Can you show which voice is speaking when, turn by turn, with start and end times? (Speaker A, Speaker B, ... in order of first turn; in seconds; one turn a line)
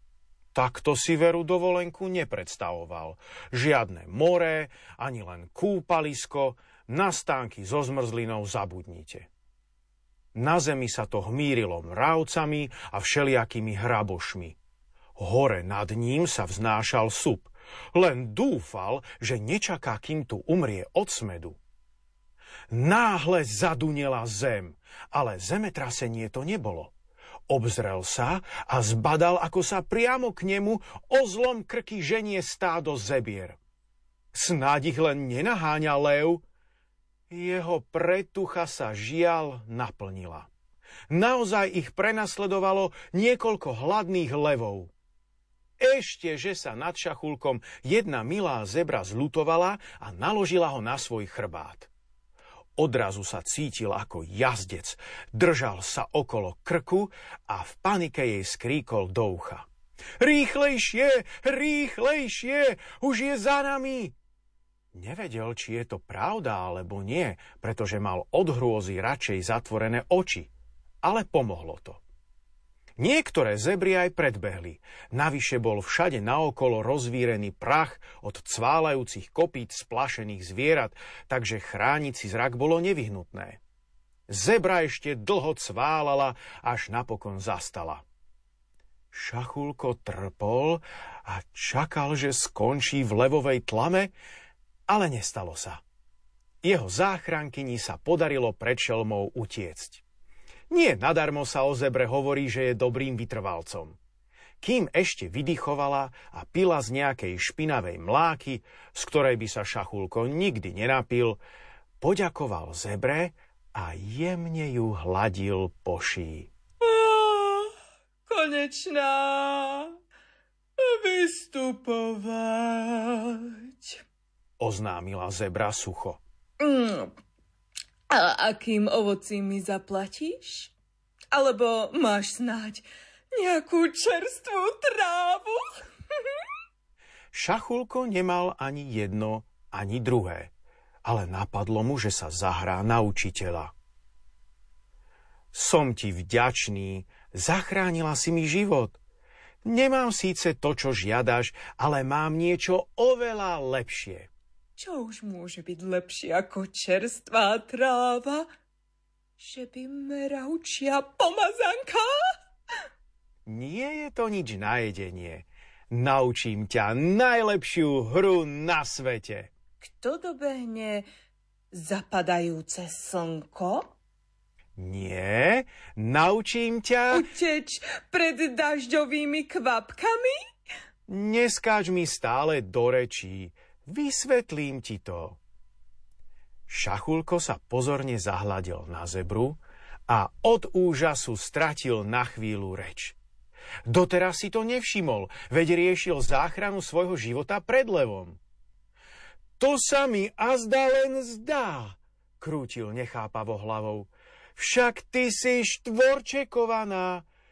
Speaker A: 0.6-9.3
Speaker A: 10.3-14.6
Speaker A: 15.2-21.6
Speaker A: 22.7-26.9
Speaker A: 27.5-33.6
Speaker A: 34.4-36.4
Speaker A: 37.3-40.5
Speaker A: 41.1-44.9
Speaker A: 45.8-51.9
Speaker A: 52.8-59.7
Speaker A: 60.2-64.1
Speaker A: 65.0-70.5
Speaker A: 71.0-72.0
Speaker A: 73.0-83.6
Speaker A: 84.3-88.0
Speaker A: 89.1-94.1
Speaker A: 94.9-95.8
Speaker A: 96.6-100.0
Speaker A: 100.7-104.0
Speaker A: 104.6-111.4
Speaker A: 112.0-116.5
Speaker B: 116.8-117.7
Speaker B: 118.3-119.9
Speaker B: 120.8-124.0
Speaker A: 124.6-126.2
Speaker B: 126.6-127.1
Speaker B: 128.1-130.7
Speaker B: 131.3-135.7
Speaker A: 137.3-140.5
Speaker A: 141.1-143.7
Speaker A: 145.6-149.0
Speaker A: 149.7-154.3
Speaker B: 154.8-158.5
Speaker B: 159.4-162.1
Speaker A: 163.5-169.5
Speaker B: 169.8-171.1
Speaker B: 171.7-173.9
Speaker A: 174.8-177.1
Speaker B: 177.1-180.4
Speaker A: 181.1-185.4
Speaker A: 186.7-193.2
Speaker A: 193.9-198.4
Speaker A: 199.6-207.2